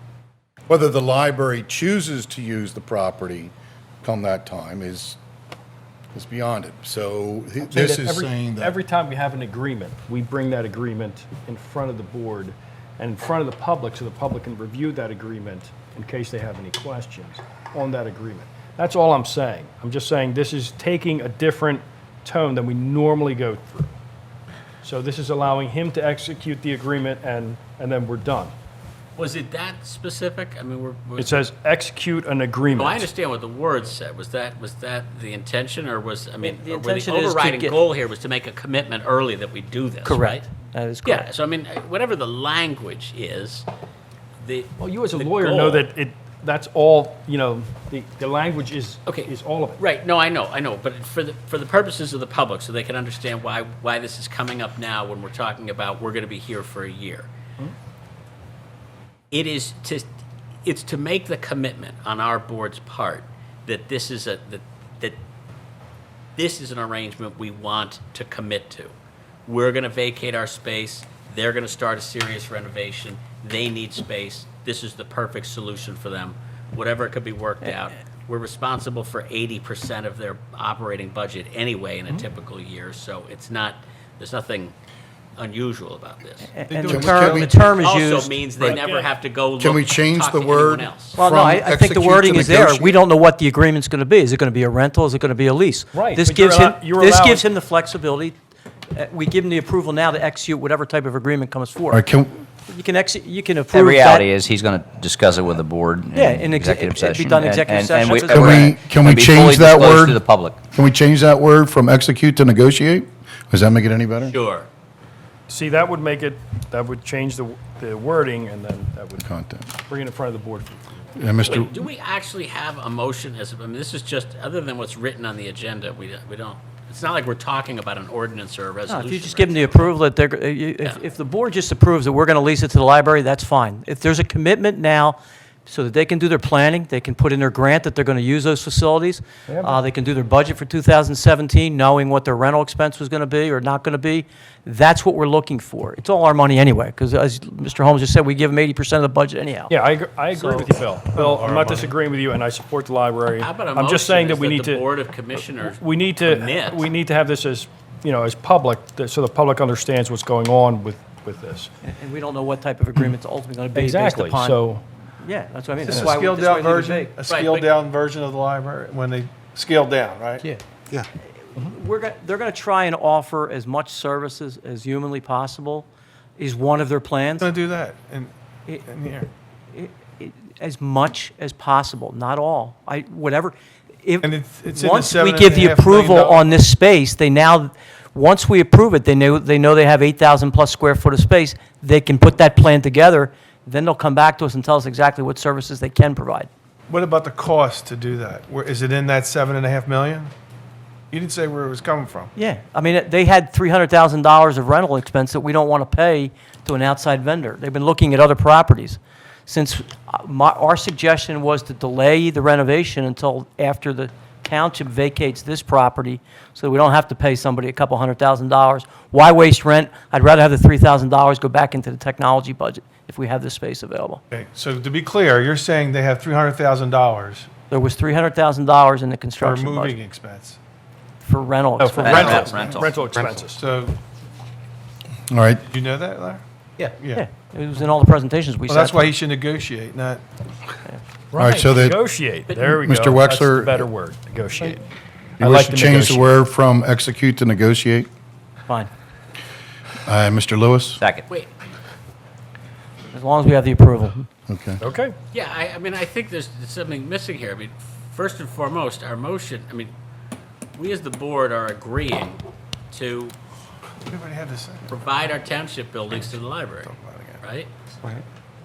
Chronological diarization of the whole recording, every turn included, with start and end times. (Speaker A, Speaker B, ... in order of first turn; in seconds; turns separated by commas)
Speaker A: 0.7-5.2, Speaker A: 6.1-8.7, Speaker B: 7.6-23.9, Speaker B: 24.8-28.5, Speaker C: 29.2-31.4, Speaker B: 31.2-33.1, Speaker C: 32.7-40.5, Speaker D: 36.4-37.8, Speaker D: 40.0-41.3, Speaker C: 41.0-43.7, Speaker C: 44.4-45.9, Speaker B: 44.8-49.8, Speaker C: 49.0-57.3, Speaker C: 59.3-60.1, Speaker C: 60.6-65.2, Speaker C: 66.3-68.9, Speaker C: 69.5-84.7, Speaker C: 85.4-86.5, Speaker D: 86.5-88.8, Speaker E: 86.7-87.5, Speaker A: 86.8-87.5, Speaker C: 87.2-91.2, Speaker B: 88.6-89.1, Speaker A: 89.6-93.0, Speaker D: 91.2-98.3, Speaker B: 95.9-97.5, Speaker D: 98.9-102.0, Speaker A: 101.9-102.3, Speaker D: 102.7-104.3, Speaker F: 103.7-110.6, Speaker D: 106.1-108.7, Speaker A: 108.3-114.3, Speaker C: 114.3-114.7, Speaker B: 115.5-119.3, Speaker A: 119.2-119.7, Speaker B: 119.8-120.8, Speaker A: 121.1-121.8, Speaker C: 121.4-129.9, Speaker D: 128.9-149.8, Speaker B: 139.5-139.8, Speaker B: 149.7-154.9, Speaker D: 150.3-150.7, Speaker E: 151.1-151.9, Speaker C: 153.4-156.8, Speaker B: 155.6-161.7, Speaker D: 161.8-164.6, Speaker B: 163.7-164.8, Speaker D: 165.2-167.1, Speaker E: 165.8-171.1, Speaker C: 167.3-167.7, Speaker D: 171.5-175.9, Speaker D: 176.4-177.5, Speaker E: 177.4-178.3, Speaker E: 178.8-179.3, Speaker D: 179.7-196.5, Speaker E: 184.2-186.5, Speaker E: 196.9-200.3, Speaker E: 201.1-202.3, Speaker D: 202.3-224.2, Speaker E: 224.3-227.5, Speaker D: 227.7-230.0, Speaker E: 229.4-230.6, Speaker D: 231.2-232.7, Speaker B: 231.8-233.6, Speaker F: 232.0-233.4, Speaker E: 232.5-232.8, Speaker E: 233.5-234.0, Speaker A: 235.3-235.6, Speaker E: 235.6-237.2, Speaker D: 237.1-239.1, Speaker E: 238.7-240.2, Speaker B: 241.3-244.8, Speaker A: 241.4-242.0, Speaker C: 242.5-242.8, Speaker A: 242.8-243.9, Speaker B: 245.4-246.3, Speaker A: 245.4-248.1, Speaker A: 250.0-251.0, Speaker F: 251.0-251.2, Speaker D: 253.1-254.2, Speaker A: 254.5-254.8, Speaker B: 254.8-255.1, Speaker C: 255.3-259.9, Speaker C: 260.8-262.4, Speaker C: 262.9-263.3, Speaker E: 264.1-264.9, Speaker C: 264.9-267.7, Speaker E: 266.2-267.4